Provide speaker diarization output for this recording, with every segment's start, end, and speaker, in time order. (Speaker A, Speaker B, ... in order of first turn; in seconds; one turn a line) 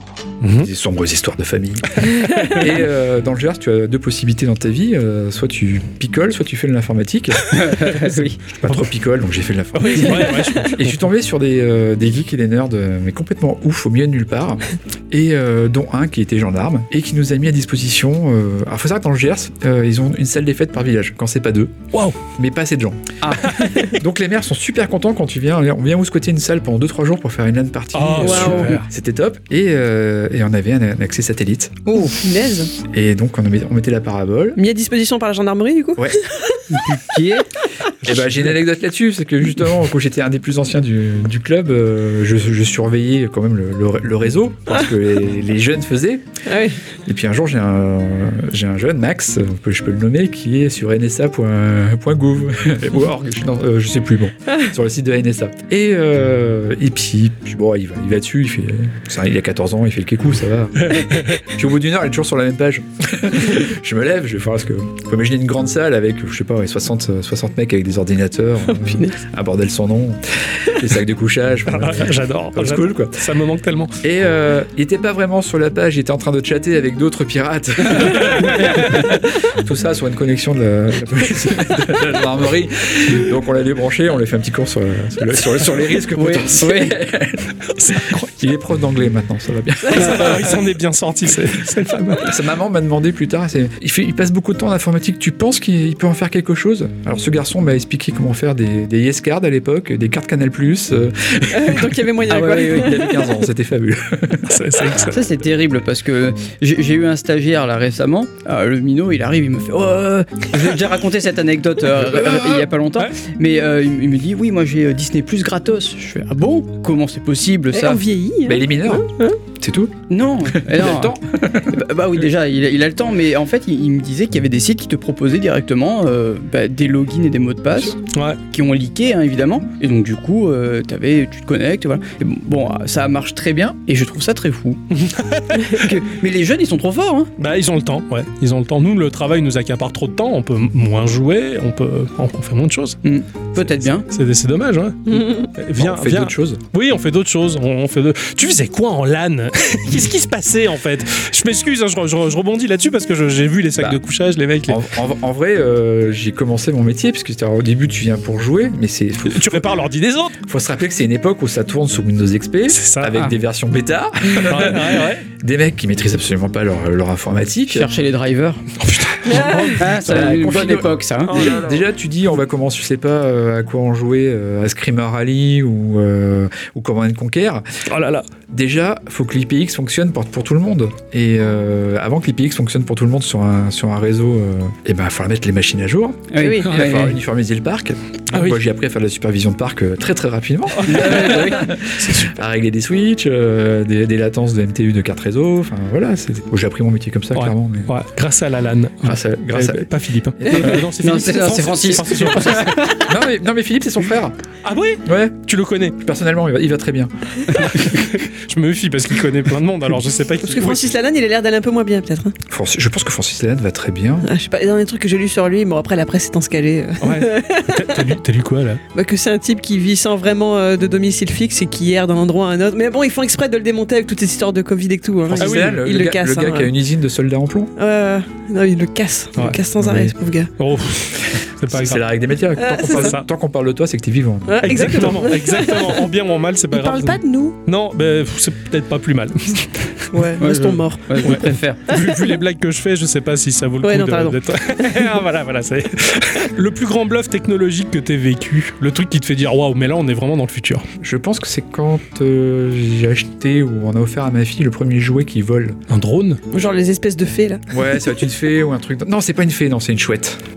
Speaker A: 0.4-0.7
Speaker B: 0.6-7.5
Speaker A: 2.0-2.7
Speaker C: 7.5-8.4
Speaker B: 8.6-31.9
Speaker A: 9.7-11.1
Speaker D: 10.1-10.6
Speaker C: 23.2-23.5
Speaker A: 23.5-23.8
Speaker A: 27.9-28.9
Speaker D: 28.2-28.8
Speaker C: 31.9-32.3
Speaker D: 32.2-32.7
Speaker B: 32.9-34.6
Speaker D: 34.6-36.7
Speaker C: 36.7-37.5
Speaker B: 38.0-46.2
Speaker D: 46.5-46.8
Speaker B: 47.1-73.3
Speaker A: 60.9-61.4
Speaker D: 68.7-69.2
Speaker A: 71.7-74.0
Speaker B: 74.0-90.6
Speaker C: 78.4-79.0
Speaker C: 86.2-87.0
Speaker A: 87.8-88.3
Speaker A: 89.9-92.4
Speaker B: 92.2-104.8
Speaker D: 101.5-103.4
Speaker C: 102.3-103.1
Speaker A: 104.5-105.2
Speaker C: 105.0-118.0
Speaker B: 112.0-112.7
Speaker D: 117.7-119.4
Speaker B: 118.5-121.9
Speaker C: 120.1-121.2
Speaker C: 121.7-128.0
Speaker A: 128.1-128.4
Speaker C: 128.5-134.8
Speaker A: 134.9-135.9
Speaker C: 135.6-137.3
Speaker A: 137.4-143.0
Speaker C: 143.0-144.1
Speaker A: 144.1-154.8
Speaker B: 145.8-146.6
Speaker B: 154.7-159.7
Speaker A: 159.3-160.4
Speaker B: 160.4-167.9
Speaker A: 162.7-163.4
Speaker A: 164.3-165.2
Speaker C: 167.7-168.7
Speaker A: 168.8-171.7
Speaker D: 169.2-169.8
Speaker B: 169.5-177.8
Speaker C: 169.8-171.8
Speaker A: 177.9-178.2
Speaker B: 178.5-197.9
Speaker C: 186.3-187.2
Speaker D: 186.4-186.7
Speaker A: 188.3-188.6
Speaker A: 190.7-192.4
Speaker C: 190.9-191.8
Speaker A: 197.3-203.0
Speaker B: 199.0-199.9
Speaker B: 200.4-200.9
Speaker C: 200.5-203.1
Speaker B: 203.0-204.4
Speaker A: 204.6-206.0
Speaker B: 205.0-207.9
Speaker A: 207.6-210.9
Speaker D: 210.4-212.4
Speaker B: 212.5-214.3
Speaker D: 214.2-218.1
Speaker A: 217.0-218.8
Speaker D: 218.9-226.7
Speaker B: 225.3-227.7
Speaker A: 225.4-225.8
Speaker D: 227.8-230.5
Speaker B: 229.8-230.1
Speaker A: 230.6-232.0
Speaker B: 231.7-235.1
Speaker D: 232.6-233.2
Speaker A: 232.9-233.2
Speaker D: 234.5-236.0
Speaker A: 234.6-240.1
Speaker D: 236.7-237.6
Speaker D: 240.1-242.3
Speaker C: 240.4-241.9
Speaker A: 241.2-250.9
Speaker D: 243.8-245.0
Speaker B: 251.0-255.8
Speaker A: 255.9-256.4
Speaker D: 256.5-257.7
Speaker B: 257.7-260.4